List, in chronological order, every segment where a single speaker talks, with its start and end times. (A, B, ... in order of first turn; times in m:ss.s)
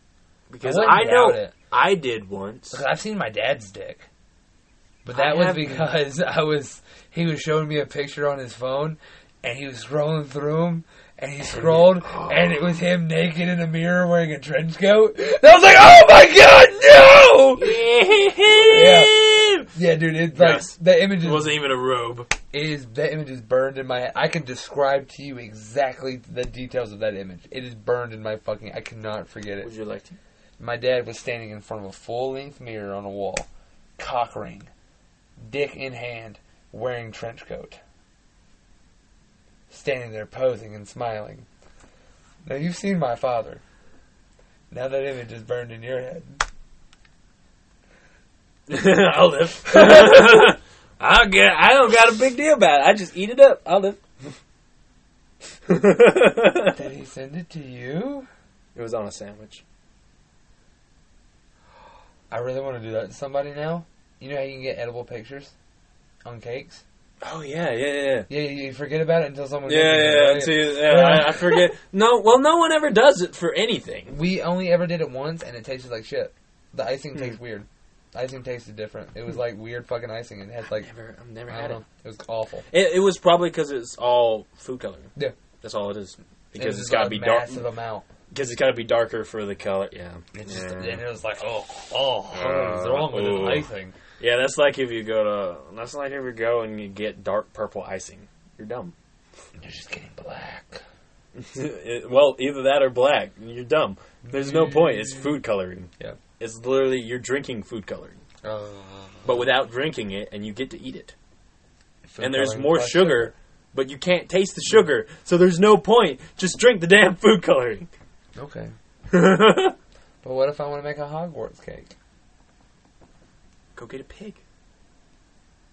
0:00.5-0:02.8 A
0:00.6-0:01.6 B
0:02.7-0:04.1 B
0:05.0-0:17.8 B
0:05.1-0:05.9 A
0:11.5-0:12.8 A
0:17.6-0:19.7 A
0:18.5-0:19.2 B
0:19.7-0:21.6 B
0:20.3-0:22.3 A
0:22.5-0:29.7 B
0:29.6-0:30.2 A
0:30.6-0:34.7 B
0:35.4-0:37.8 B
0:39.7-0:41.5 B
0:42.4-0:43.6 B
0:44.7-0:46.4 B
0:48.7-0:54.3 A
0:49.8-0:50.3 B
0:55.7-0:56.8 A
0:56.7-0:58.3 B
0:58.8-0:59.6 A
1:02.3-1:05.5 B
1:06.2-1:06.8 B
1:07.2-1:08.3 A
1:08.3-1:11.7 B
1:09.7-1:14.2 A
1:14.1-1:20.9 B
1:20.6-1:21.8 A
1:21.5-1:22.7 B
1:22.7-1:27.6 A
1:26.6-1:28.1 B
1:28.3-1:31.1 A
1:30.3-1:34.0 B
1:32.3-1:39.0 A
1:39.6-1:40.8 B
1:41.4-1:48.2 A
1:44.2-1:45.4 B
1:48.4-1:49.4 B
1:49.2-1:51.2 A
1:52.0-1:53.3 B
1:52.2-1:57.9 A
1:58.4-1:58.7 B
1:59.1-1:59.8 A
2:00.2-2:02.0 B
2:03.8-2:04.4 A